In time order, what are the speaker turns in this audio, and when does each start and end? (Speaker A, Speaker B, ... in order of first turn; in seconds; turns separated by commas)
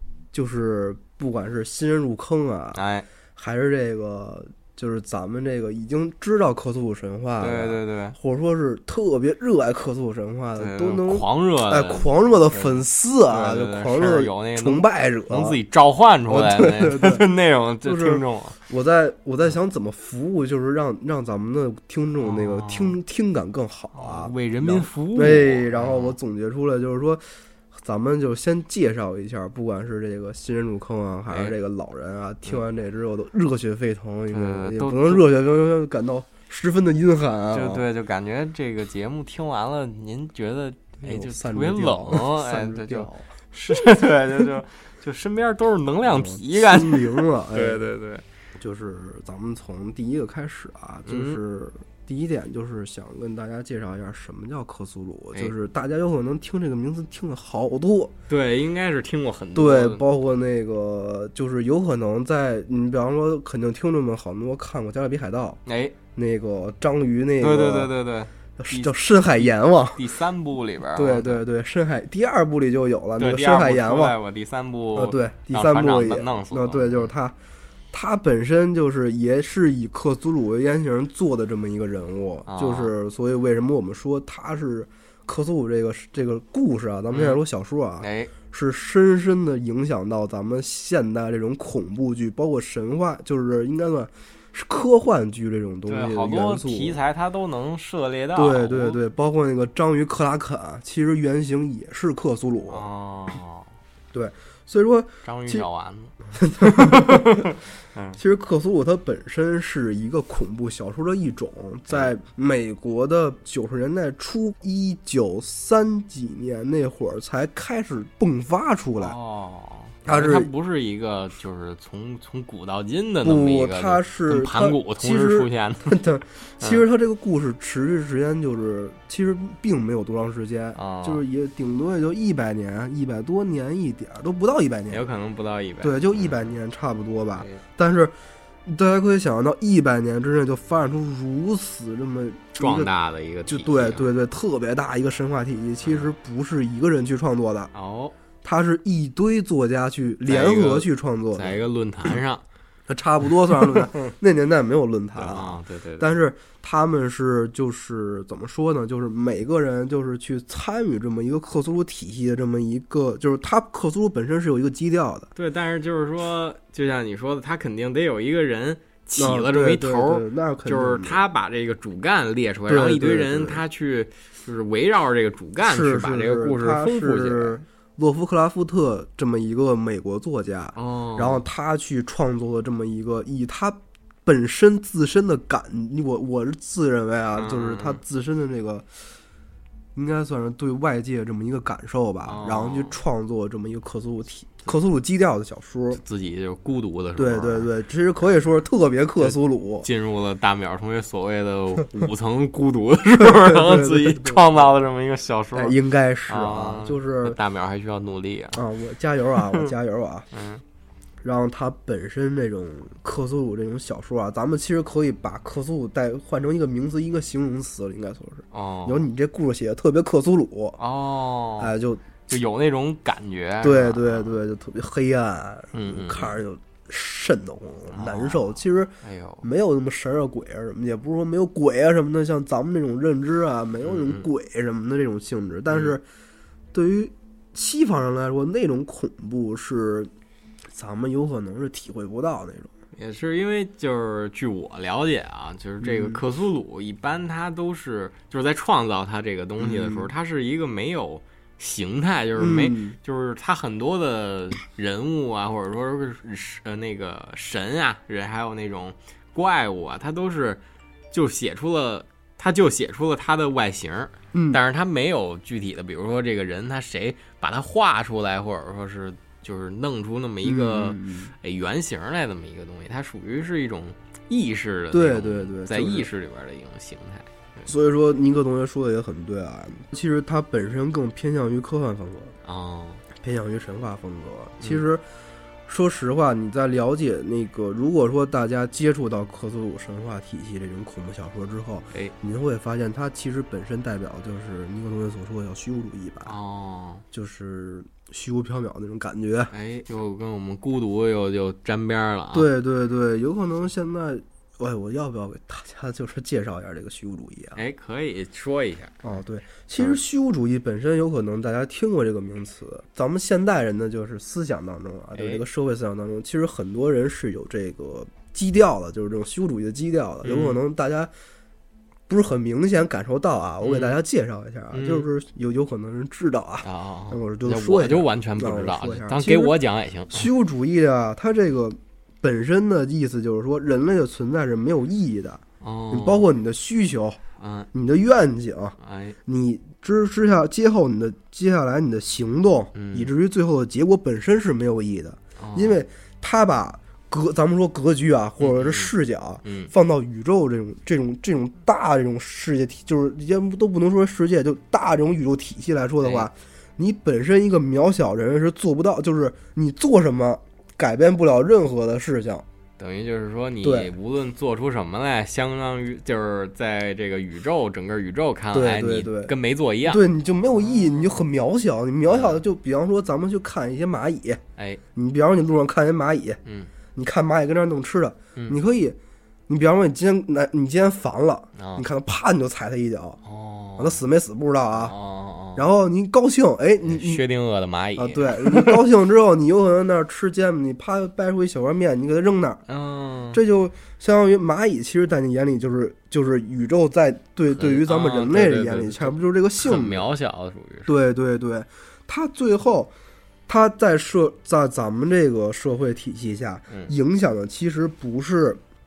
Speaker A: 0.3-2.8, Speaker B: 2.7-3.1, Speaker A: 3.4-15.6, Speaker B: 7.4-8.2, Speaker B: 10.6-18.6, Speaker A: 16.3-17.3, Speaker A: 17.8-37.9, Speaker B: 22.2-23.0, Speaker B: 23.9-26.2, Speaker B: 31.3-31.6, Speaker B: 34.3-35.2, Speaker B: 37.5-48.2, Speaker A: 41.0-43.3, Speaker A: 46.0-47.8, Speaker A: 48.6-58.1, Speaker B: 51.1-51.4, Speaker B: 58.3-60.0, Speaker A: 59.5-65.6, Speaker B: 65.7-66.0, Speaker A: 66.1-67.9, Speaker B: 67.4-71.4, Speaker A: 68.6-70.1, Speaker A: 70.9-74.2, Speaker B: 73.2-77.1, Speaker A: 75.0-77.3, Speaker A: 77.9-97.0, Speaker B: 82.5-82.9, Speaker B: 87.1-87.4, Speaker B: 88.0-88.3, Speaker B: 95.9-99.0, Speaker A: 98.3-102.8, Speaker B: 102.7-103.7, Speaker A: 104.1-105.7, Speaker B: 105.2-108.2, Speaker A: 106.3-107.5, Speaker A: 108.2-119.2, Speaker B: 111.9-112.1, Speaker B: 119.0-126.0, Speaker A: 120.0-120.5, Speaker A: 123.2-135.0, Speaker B: 130.8-131.2, Speaker B: 134.9-136.5, Speaker A: 135.8-138.1, Speaker B: 137.4-137.6, Speaker A: 138.7-142.9, Speaker B: 142.6-144.1, Speaker A: 143.5-147.7, Speaker B: 145.8-146.1, Speaker B: 147.7-148.2, Speaker A: 148.4-152.2, Speaker B: 150.3-152.4, Speaker A: 152.9-165.3, Speaker B: 153.5-154.1, Speaker B: 155.1-156.1, Speaker B: 165.3-177.6, Speaker A: 169.2-171.2, Speaker A: 172.7-173.6, Speaker A: 175.6-188.9, Speaker B: 180.8-181.4, Speaker B: 187.3-188.0, Speaker A: 189.9-196.0, Speaker B: 192.2-193.0, Speaker B: 195.9-197.7, Speaker A: 197.2-199.9, Speaker B: 199.2-205.8, Speaker A: 203.2-204.5, Speaker A: 205.6-207.4, Speaker B: 206.3-208.6, Speaker A: 208.6-210.3, Speaker B: 209.4-209.7, Speaker B: 210.3-210.6, Speaker A: 211.2-220.8, Speaker B: 218.5-219.1, Speaker B: 220.8-221.7, Speaker A: 221.6-222.1, Speaker B: 222.3-224.4, Speaker A: 223.6-236.0, Speaker B: 225.7-226.4, Speaker B: 227.9-229.5, Speaker B: 233.8-234.3, Speaker B: 235.7-236.0, Speaker A: 236.7-240.1, Speaker A: 240.7-242.7, Speaker B: 242.9-277.7, Speaker A: 245.8-246.2, Speaker A: 249.6-250.1, Speaker A: 252.4-253.0, Speaker A: 264.3-264.6, Speaker A: 270.4-271.3, Speaker A: 274.9-276.1, Speaker A: 277.7-282.4, Speaker B: 282.4-283.0, Speaker A: 283.2-285.0, Speaker A: 285.7-296.4, Speaker B: 296.2-297.1, Speaker A: 297.1-299.5, Speaker B: 299.5-302.5, Speaker A: 302.3-307.6, Speaker B: 307.6-309.2, Speaker A: 309.0-321.1, Speaker B: 315.1-315.4, Speaker B: 320.2-320.6, Speaker A: 322.1-329.6, Speaker B: 323.6-324.0, Speaker B: 324.7-325.1, Speaker B: 326.6-330.3, Speaker A: 330.1-337.2, Speaker B: 335.6-336.3, Speaker B: 337.4-337.7, Speaker A: 337.7-362.4, Speaker B: 338.8-339.2, Speaker B: 342.7-343.1, Speaker B: 345.4-345.8, Speaker B: 348.4-349.7, Speaker B: 356.0-356.3, Speaker B: 362.8-371.2, Speaker A: 363.6-363.9, Speaker A: 368.5-369.3, Speaker A: 369.9-374.4, Speaker B: 372.1-372.4, Speaker A: 374.9-376.4, Speaker B: 376.4-376.7, Speaker A: 376.9-379.0, Speaker A: 379.5-383.2, Speaker B: 381.6-381.9, Speaker B: 383.2-384.0, Speaker A: 383.8-384.9, Speaker B: 384.7-385.7, Speaker A: 385.6-387.2, Speaker B: 386.8-388.8, Speaker A: 388.0-392.6, Speaker B: 392.7-393.4, Speaker A: 393.3-400.0, Speaker B: 397.5-400.9, Speaker A: 400.9-402.9, Speaker A: 403.5-408.6